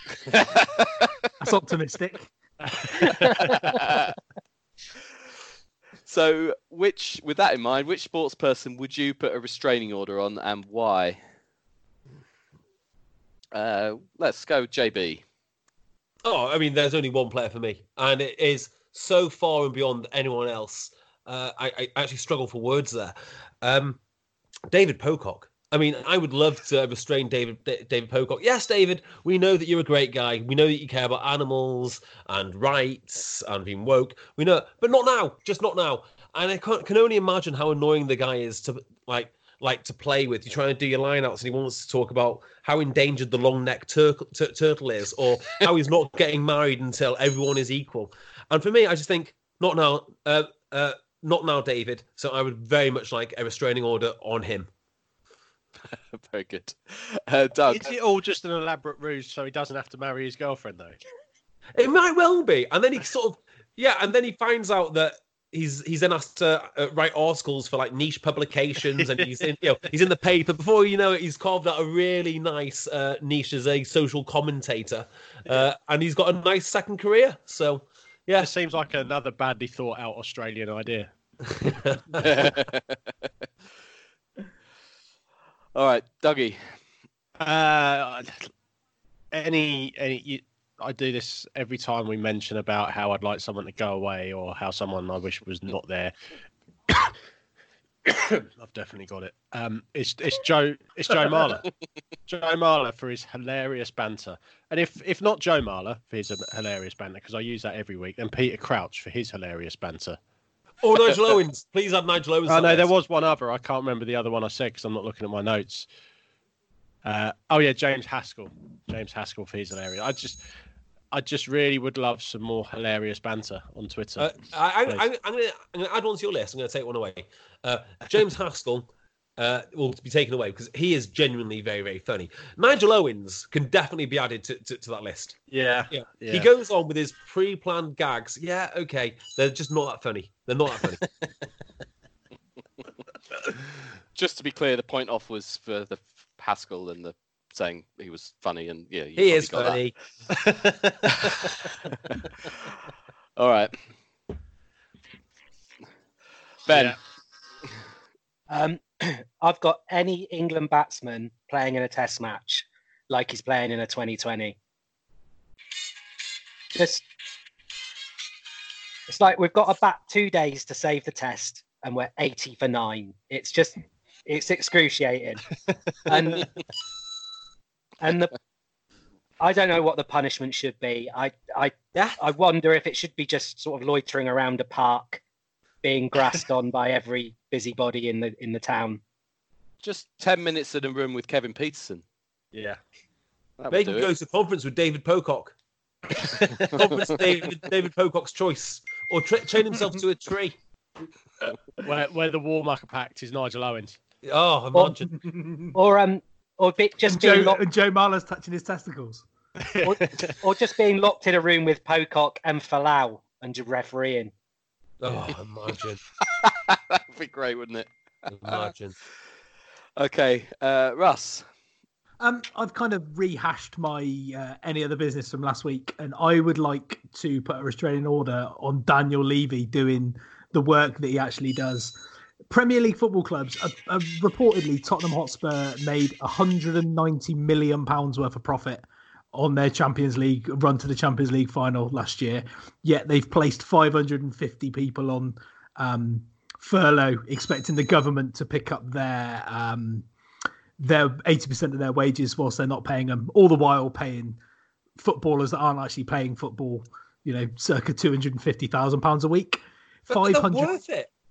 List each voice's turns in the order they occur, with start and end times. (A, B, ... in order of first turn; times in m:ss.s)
0:00.3-0:01.1 A
0:01.4-0:02.3 B
0:02.6-0:03.6 C
0:03.7-0:04.1 A
0:06.1-0:11.2 A
0:13.5-0:15.2 A
0:16.2-0:24.0 D
0:24.7-0:54.7 D
0:55.8-0:58.0 A
0:57.7-1:01.0 C
1:01.8-1:18.5 D
1:09.0-1:09.5 C
1:18.4-1:21.1 C
1:21.5-1:22.5 D
1:22.2-1:23.1 A
1:25.8-1:26.6 A
1:27.4-1:28.5 C
1:29.3-1:36.1 C
1:38.1-1:41.7 C
1:42.3-1:50.2 C
1:50.8-1:52.9 D
1:52.5-1:55.9 C
1:57.0-2:00.4 C
2:01.1-2:04.3 C
2:04.2-2:15.4 D
2:15.5-2:16.5 C
2:15.9-2:21.0 D
2:24.2-2:29.8 A
2:29.2-2:29.9 D
2:30.4-2:31.0 C
2:31.1-2:32.6 A
2:33.4-2:33.8 A
2:36.7-2:37.0 A
2:36.7-2:37.0 C
2:38.5-2:44.6 E
2:46.8-2:47.0 E
2:49.1-2:55.4 E
2:56.1-2:56.5 E
2:58.0-2:58.4 E
2:59.4-3:05.2 E
3:02.0-3:02.2 D
3:05.8-3:09.0 E
3:09.8-3:12.0 A
3:12.5-3:12.8 C
3:13.6-3:14.1 A
3:13.7-3:15.6 D
3:16.3-3:16.7 C
3:16.7-3:20.6 D
3:21.8-3:24.0 C
3:24.2-3:25.1 D
3:25.1-3:25.7 B
3:25.7-3:27.6 E
3:27.0-3:29.2 B
3:29.6-3:30.3 C
3:29.8-3:34.3 E
3:35.0-3:36.0 D
3:36.4-3:38.7 A
3:38.3-3:39.0 D
3:40.0-3:41.4 A
3:42.2-3:52.0 B
3:52.5-4:10.1 B
4:10.8-4:14.4 B
4:15.0-4:20.7 B
4:20.1-4:21.1 D